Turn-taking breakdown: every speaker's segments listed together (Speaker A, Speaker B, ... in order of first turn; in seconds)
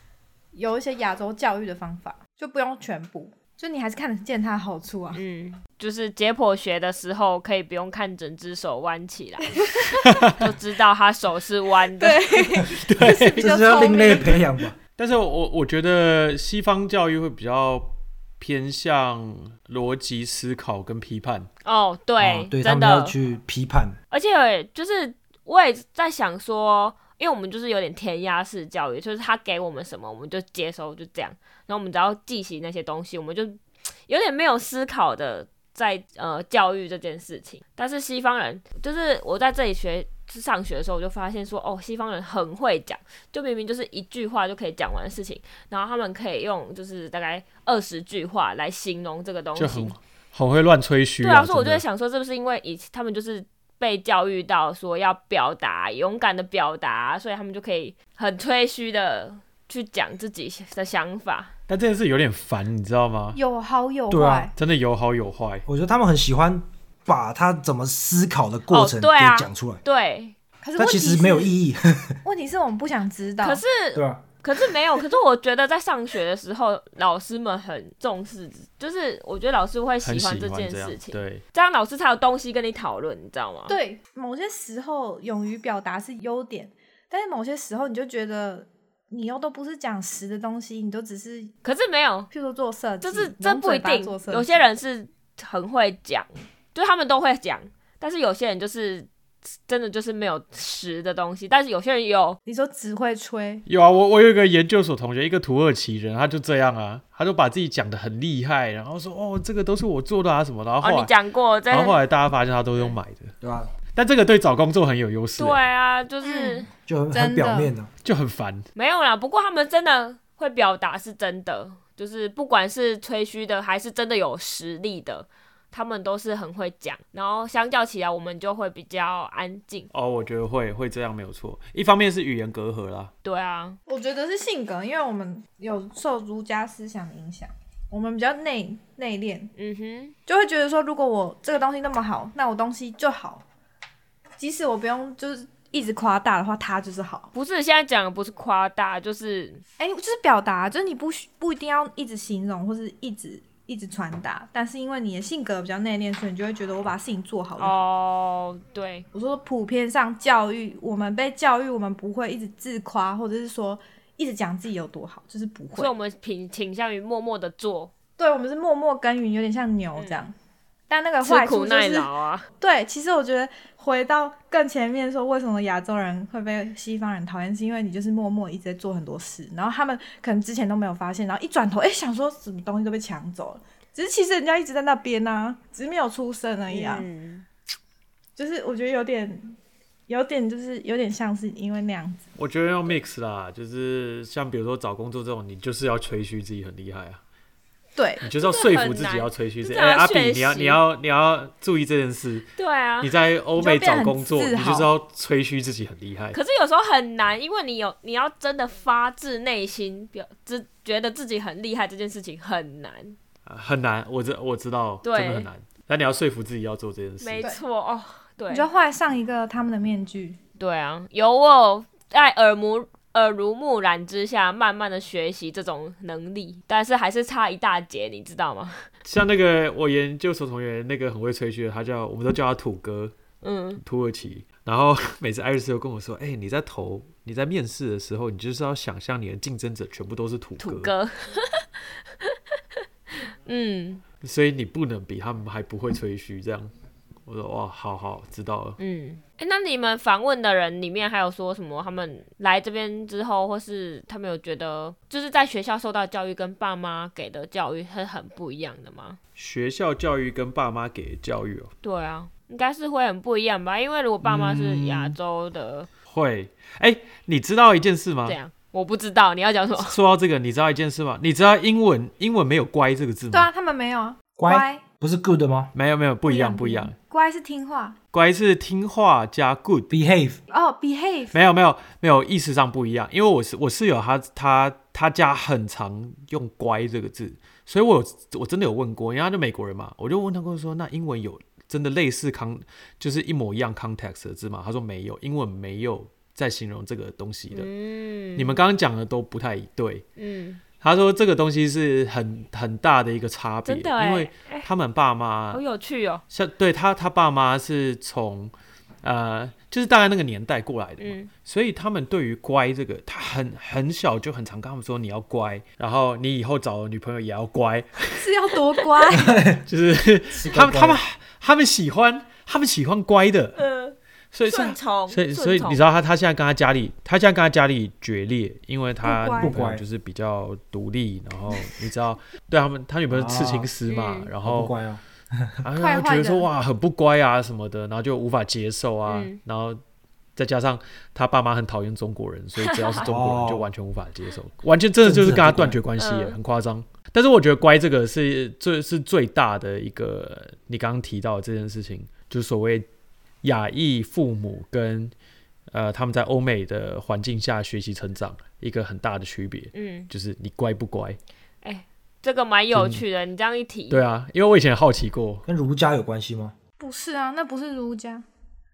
Speaker A: 0.5-5.2, 9.6-10.0, 12.0-14.4, 63.3-64.5, 70.6-71.5, 72.2-73.6, 83.7-91.5, 92.3-94.6, 102.5-103.6, 116.2-117.7, 133.9-139.5, 140.3-143.4, 144.4-147.3, 149.8-157.8, 159.1-165.9, 168.2-170.3, 170.9-187.1, 188.3-189.6, 190.1-192.2, 197.9-198.2, 203.6-204.9, 218.5-220.4, 273.3-274.8, 276.2-278.0, 280.5-281.3, 318.1-319.4, 329.0-329.5, 335.8-336.5, 366.8-368.2
Speaker B: 5.1-9.6, 10.3-12.2, 21.6-23.1, 24.1-49.9, 51.2-61.5, 68.7-70.3, 73.4-83.8, 91.6-92.3, 93.0-99.1, 99.7-102.4, 110.8-112.0, 115.4-116.7, 118.7-129.9, 133.2-133.8, 139.6-140.1, 147.3-149.6, 157.6-159.1, 165.7-167.9, 169.9-170.2, 171.2-172.5, 186.7-187.4, 198.2-200.8, 202.6-203.1, 206.3-213.2, 215.0-215.5, 217.2-218.7, 220.6-228.9, 233.4-233.8, 240.6-242.4, 243.4-244.0, 248.8-259.2, 261.8-265.9, 268.2-269.9, 297.5-298.6, 300.2-300.6, 303.6-304.6, 305.5-306.2, 311.0-311.3, 323.6-323.9, 324.5-325.8, 333.9-334.3, 339.1-339.4, 342.6-343.0, 346.0-346.4, 359.7-360.1, 361.6-364.0
Speaker C: 10.0-10.4, 12.7-14.3, 15.0-21.5, 49.5-51.8, 61.7-63.4, 64.5-65.7, 80.0-81.4, 103.7-111.1, 111.7-113.3, 113.9-115.6, 118.0-118.7, 129.9-133.1, 192.3-197.2, 198.2-202.5, 203.0-206.4, 213.4-217.5, 229.0-233.1, 233.8-240.9, 244.2-246.7, 247.3-248.8, 259.4-261.7, 264.2-265.1, 266.1-268.4, 269.8-273.5, 275.7-276.9, 278.1-279.9, 281.3-297.7, 298.4-300.0, 300.8-305.6, 306.3-318.3, 319.6-323.6, 324.3-334.7, 335.6-339.8, 340.4-352.9, 353.4-355.1, 355.7-361.2, 362.7-363.0, 363.9-365.4
Speaker D: 13.0-14.8, 22.2-24.0, 64.1-64.5, 65.7-69.8, 70.8-72.2, 73.9-74.2, 113.4-113.7, 116.9-117.9, 274.4-275.7, 279.9-280.4, 319.1-319.6, 320.4-321.0, 329.4-329.8, 333.1-333.7, 334.4-335.6, 343.0-343.6, 345.0-345.8, 365.4-366.5